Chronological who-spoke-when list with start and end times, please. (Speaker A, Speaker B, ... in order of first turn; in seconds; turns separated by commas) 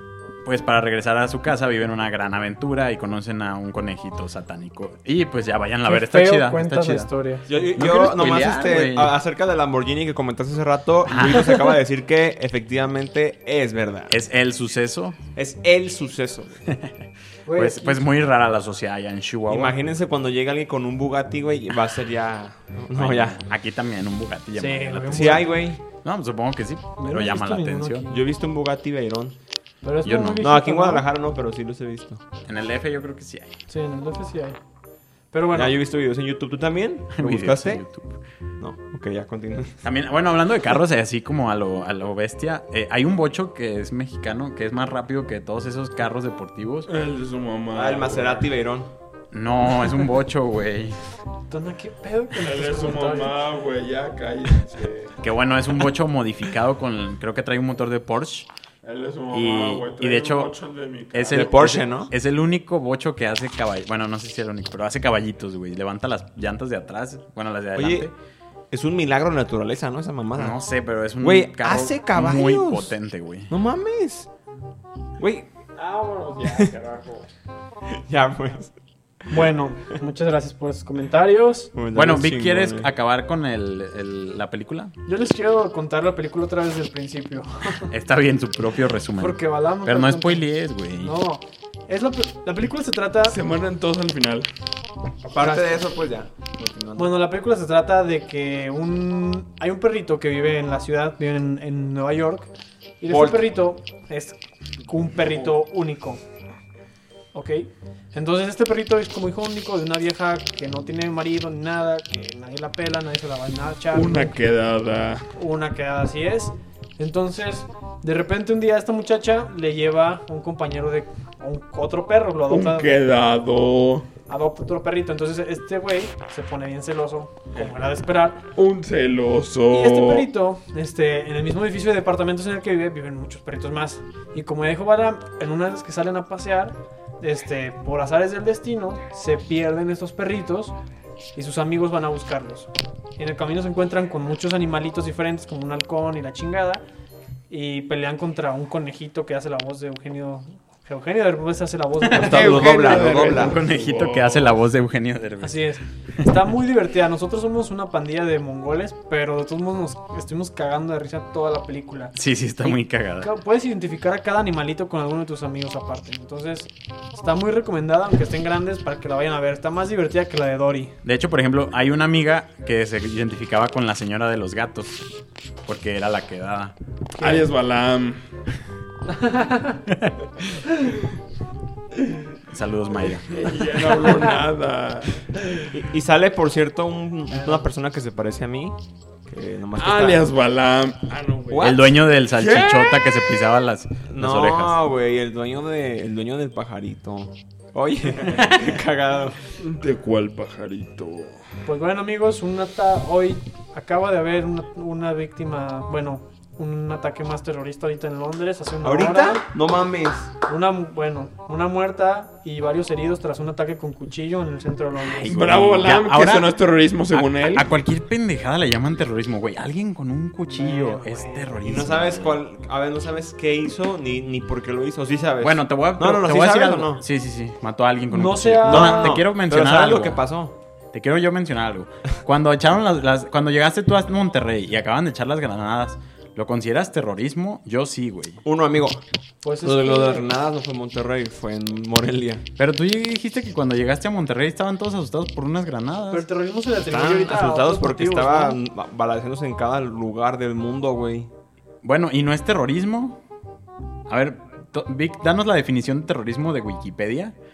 Speaker A: 0.4-7.1, Speaker B: 5.9-7.5, Speaker C: 7.5-14.2, Speaker A: 7.7-9.2, Speaker A: 11.1-11.7, Speaker A: 14.1-15.2, Speaker C: 15.3-16.6, Speaker A: 16.7-16.9, Speaker B: 17.5-18.0, Speaker A: 17.5-19.8, Speaker C: 19.5-23.4, Speaker A: 22.9-28.1, Speaker B: 24.6-25.6, Speaker C: 25.1-25.8, Speaker B: 27.0-28.2, Speaker C: 28.1-29.4, Speaker B: 29.8-31.0, Speaker A: 30.0-30.5, Speaker C: 30.4-32.2, Speaker A: 32.5-33.6, Speaker B: 33.7-34.6, Speaker B: 35.3-35.7, Speaker C: 35.5-37.8, Speaker A: 37.1-38.1, Speaker C: 38.6-39.8, Speaker A: 39.8-46.9, Speaker D: 46.9-48.5, Speaker C: 47.7-48.9, Speaker A: 49.3-51.0, Speaker B: 51.5-53.4, Speaker D: 52.4-55.2, Speaker A: 55.2-58.5, Speaker D: 58.8-61.6, Speaker A: 59.3-60.5, Speaker A: 61.1-68.1, Speaker C: 61.3-62.1, Speaker C: 67.8-68.1, Speaker C: 68.7-70.6, Speaker A: 70.4-73.5, Speaker C: 71.2-72.9, Speaker C: 73.5-74.3, Speaker C: 75.2-75.5, Speaker D: 75.8-77.2, Speaker C: 76.4-76.7, Speaker C: 77.9-78.7, Speaker B: 79.3-81.7, Speaker C: 81.7-82.9, Speaker A: 81.9-84.9, Speaker B: 85.1-87.9, Speaker A: 87.9-91.2, Speaker B: 89.2-90.5, Speaker B: 91.0-93.4, Speaker D: 93.2-94.5, Speaker C: 95.2-97.1, Speaker B: 95.4-95.8, Speaker B: 97.0-106.2, Speaker C: 103.1-103.5, Speaker B: 107.3-114.4, Speaker D: 113.9-115.2, Speaker B: 115.3-123.0, Speaker D: 122.5-124.1, Speaker B: 124.3-128.4, Speaker D: 128.6-130.3, Speaker B: 129.7-140.7, Speaker B: 141.3-146.8, Speaker B: 147.5-152.9, Speaker A: 152.1-156.2, Speaker C: 152.1-153.6, Speaker D: 152.2-154.6, Speaker B: 155.4-170.9, Speaker A: 162.2-163.3, Speaker A: 171.0-174.9, Speaker A: 175.7-176.7, Speaker B: 177.1-177.5, Speaker D: 177.2-178.2, Speaker B: 179.1-179.8, Speaker A: 179.9-180.1, Speaker A: 182.5-183.6, Speaker D: 183.3-185.7, Speaker C: 185.7-188.8, Speaker B: 187.3-187.7, Speaker C: 189.3-190.2, Speaker D: 189.7-193.1, Speaker C: 191.5-192.0, Speaker A: 191.6-194.8, Speaker C: 194.1-199.4, Speaker A: 198.3-198.7, Speaker D: 199.6-201.4, Speaker B: 201.6-209.5, Speaker C: 208.8-210.3, Speaker B: 210.5-215.4, Speaker A: 215.1-222.4, Speaker D: 215.3-217.7, Speaker B: 220.5-221.7, Speaker C: 221.6-227.0, Speaker A: 225.4-230.2, Speaker B: 228.1-229.2, Speaker C: 228.6-230.5, Speaker A: 230.9-238.4, Speaker C: 238.4-239.0, Speaker B: 239.4-240.3, Speaker C: 239.6-242.4, Speaker A: 242.6-246.2, Speaker B: 246.1-248.6, Speaker C: 246.8-251.3, Speaker A: 251.8-253.2, Speaker A: 254.1-257.3